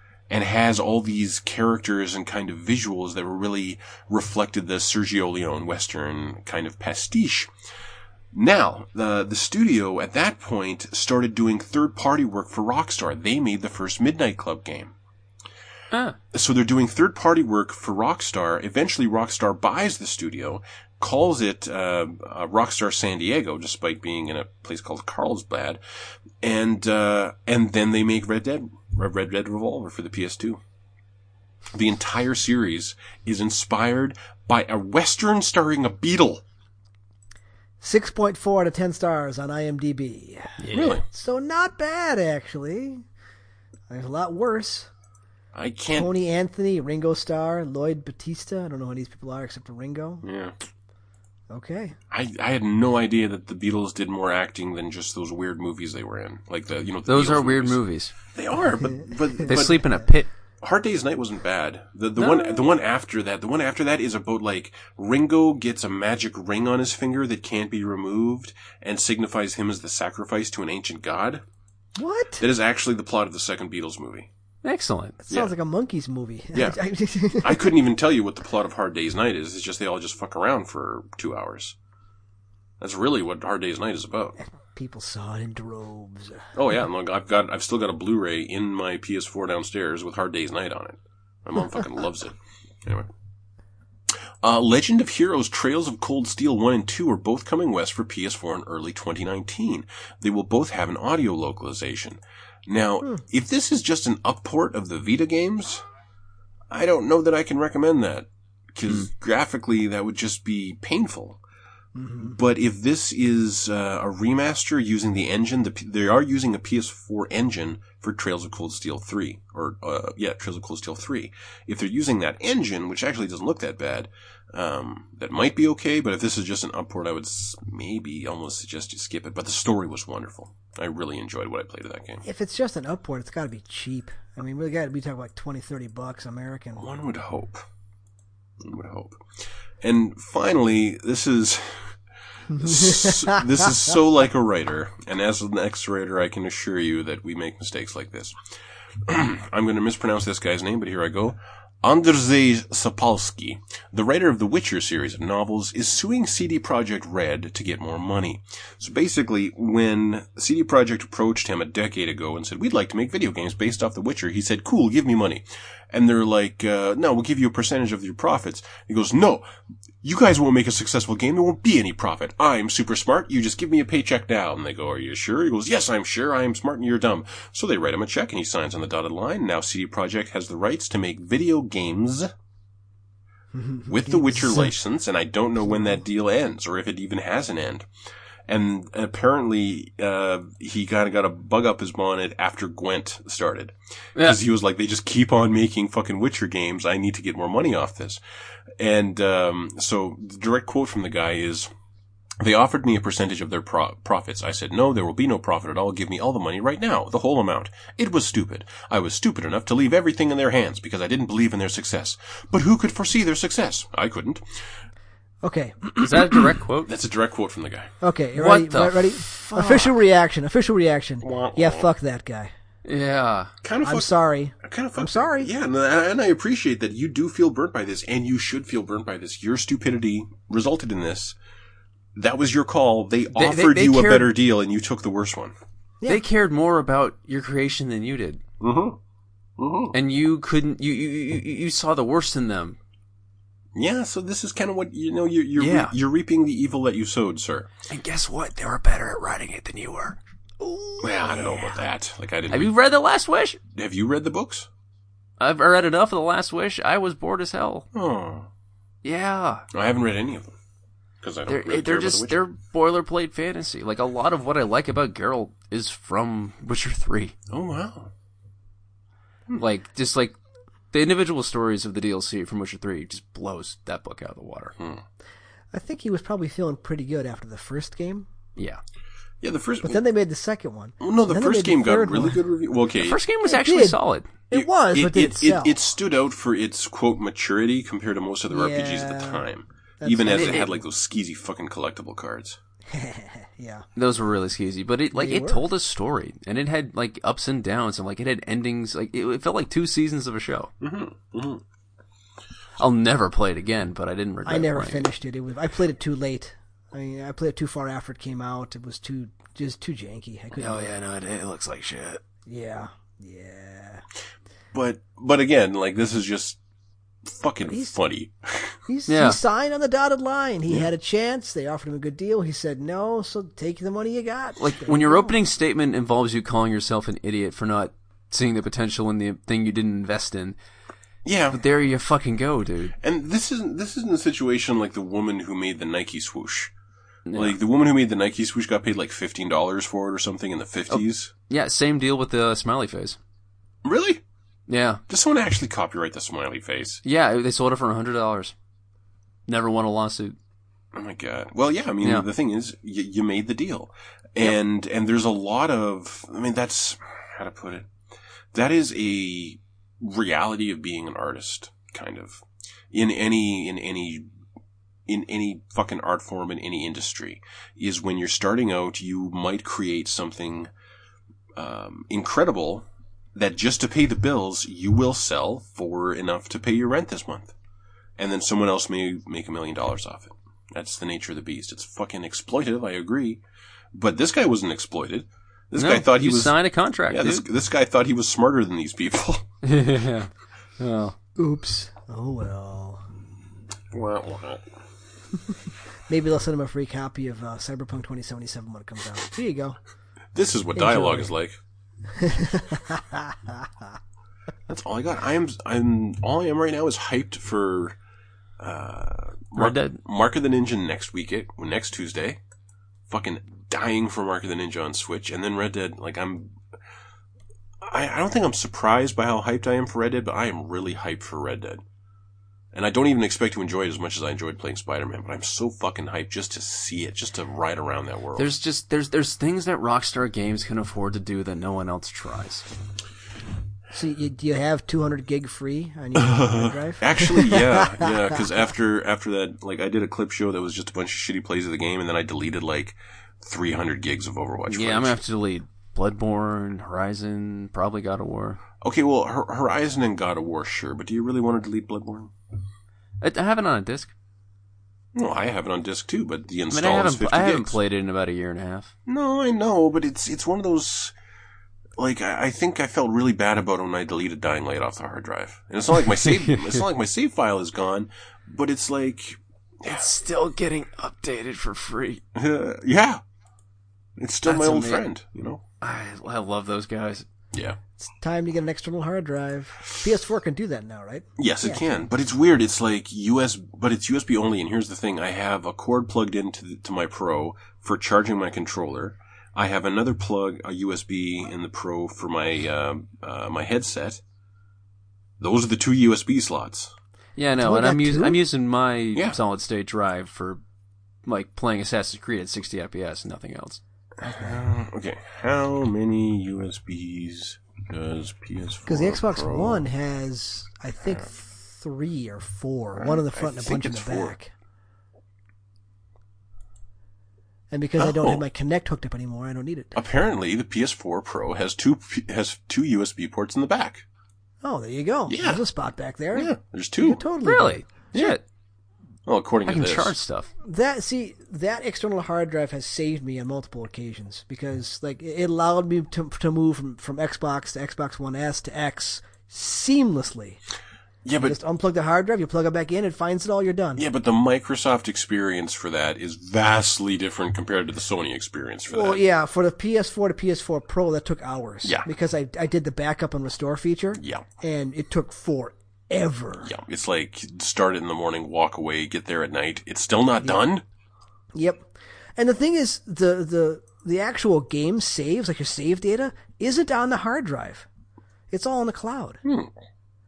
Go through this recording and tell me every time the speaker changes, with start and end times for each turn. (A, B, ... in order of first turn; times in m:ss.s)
0:00.3-0:07.5 A
0:08.3-0:14.9 A
0:15.9-0:16.2 B
0:16.3-0:25.8 A
0:26.4-0:30.6 A
0:31.7-0:36.4 A
0:37.8-0:43.0 C
0:40.6-0:41.0 B
0:40.7-0:41.0 A
0:43.9-0:44.9 C
0:45.5-0:46.1 A
0:45.9-0:50.2 C
0:50.2-0:50.5 A
0:51.5-0:52.0 C
0:52.1-0:59.9 A
0:57.1-0:58.1 B
0:58.9-0:59.9 C
0:59.4-1:00.3 B
1:00.6-1:11.4 A
1:02.2-1:02.6 B
1:12.0-1:12.4 C
1:12.4-1:14.3 A
1:14.6-1:15.2 B
1:15.2-1:17.7 C
1:16.5-1:16.8 A
1:17.4-1:21.8 A
1:22.8-1:24.4 A
1:24.4-1:26.5 C
1:26.5-1:33.1 A
1:34.4-1:45.8 A
1:46.7-1:51.4 A
1:52.0-1:52.4 C
1:52.2-2:12.2 A
2:12.2-2:16.8 C
2:16.8-2:17.6 A
2:18.6-2:19.3 A
2:19.8-2:22.0 A
2:22.5-2:28.4 A
2:22.5-2:23.7 C
2:29.0-2:49.4 A
2:50.0-3:02.3 A
3:03.5-3:04.7 C
3:03.9-3:07.9 A
3:08.5-3:18.2 A
3:18.8-3:21.7 A
3:22.4-3:34.4 A
3:35.4-3:36.4 C
3:36.0-3:36.9 B
3:36.8-3:37.9 A
3:38.0-3:42.5 C
3:38.4-3:39.9 B
3:41.2-3:41.9 A
3:42.8-3:43.5 B
3:43.6-3:44.1 A
3:43.8-3:45.5 C
3:44.6-3:51.4 A
3:52.1-3:55.5 A
3:53.3-3:54.3 B
3:56.1-3:58.4 B
3:58.6-3:59.0 A
3:59.6-3:59.9 A
3:59.9-4:02.8 B
4:03.7-4:07.7 A
4:05.6-4:05.9 B
4:07.9-4:10.2 B
4:10.6-4:11.7 C
4:11.0-4:12.7 A
4:12.5-4:13.6 B
4:13.7-4:14.7 A
4:15.4-4:17.8 B
4:17.9-4:18.5 A
4:19.0-4:19.6 B
4:19.7-4:20.5 A
4:21.2-4:22.4 A
4:21.5-4:27.4 B
4:27.5-4:28.1 A
4:29.6-4:30.3 B
4:30.9-4:34.7 B
4:35.7-4:38.3 C
4:39.4-4:40.0 A
4:39.8-4:42.4 C
4:41.0-4:43.2 A
4:43.0-4:44.3 B
4:43.4-4:45.7 C
4:44.5-4:52.6 A
4:48.5-4:49.4 C
4:50.0-4:50.8 C
4:50.3-4:50.6 B
4:52.9-4:53.9 C
4:54.0-5:00.7 B
4:55.1-4:55.6 C
5:00.8-5:01.6 A
5:02.8-5:05.1 B
5:04.4-5:10.9 C
5:10.6-5:12.2 B
5:12.4-5:14.0 C
5:14.7-5:16.6 A
5:17.2-5:18.8 A
5:17.7-5:17.9 C
5:18.9-5:25.4 C
5:19.1-5:19.4 B
5:24.6-5:30.6 B
5:31.2-5:31.6 A
5:31.5-5:33.0 B
5:33.0-5:36.7 A
5:37.3-5:37.6 B
5:37.3-5:41.3 A
5:40.9-5:43.2 B
5:43.8-5:44.2 A
5:44.7-5:45.0 B
5:45.1-5:47.0 A
5:47.0-5:48.5 B
5:49.5-5:50.4 B
5:50.9-5:57.9 A
5:58.5-6:04.3 A
6:05.1-6:10.7 A
6:11.6-6:17.5 A
6:18.2-6:23.4 A
6:23.9-6:26.6 A
6:25.8-6:27.4 B
6:27.1-6:29.4 A
6:29.6-6:31.1 B
6:31.4-6:33.0 C
6:33.9-6:34.6 A
6:36.1-6:39.8 C
6:40.3-6:41.6 A
6:40.7-6:41.3 C
6:42.2-6:43.7 C
6:44.7-6:48.0 A
6:48.6-6:52.4 A
6:49.5-6:50.0 B
6:53.1-6:56.6 A
6:57.8-7:01.8 A
7:02.7-7:08.5 A
7:08.4-7:12.6 B
7:13.9-7:18.1 C
7:16.2-7:25.2 A
7:24.7-7:28.6 B
7:28.8-7:32.3 A
7:33.2-7:34.1 B
7:35.1-7:37.8 A
7:36.7-7:38.9 B
7:39.0-7:41.1 A
7:42.0-7:50.1 A
7:46.2-7:46.8 B
7:49.9-7:52.2 B
7:52.3-7:53.2 A
7:54.2-7:55.6 A
7:54.4-7:55.0 B
7:55.8-7:57.3 B
7:57.5-7:57.8 A
7:58.0-8:02.0 C
8:01.4-8:14.2 A
8:15.4-8:16.9 A
8:17.4-8:20.6 B
8:17.6-8:18.4 C
8:21.2-8:23.8 B
8:24.2-8:24.6 C
8:24.2-8:29.9 A
8:28.8-8:34.5 C
8:32.9-8:34.4 A
8:37.7-8:40.0 C
8:38.0-8:38.4 A
8:40.0-8:44.0 A
8:44.6-8:47.9 C
8:45.3-8:45.6 A
8:46.3-8:47.2 A
8:47.4-8:48.4 B
8:49.2-8:50.1 A
8:49.6-8:50.5 B
8:50.6-9:00.6 C
9:01.2-9:01.6 A
9:01.4-9:04.0 C
9:04.0-9:09.2 A
9:08.9-9:16.7 C
9:11.8-9:12.1 A
9:14.2-9:14.5 A
9:16.6-9:20.8 A
9:21.5-9:27.8 C
9:28.5-9:29.4 C
9:29.4-9:29.7 A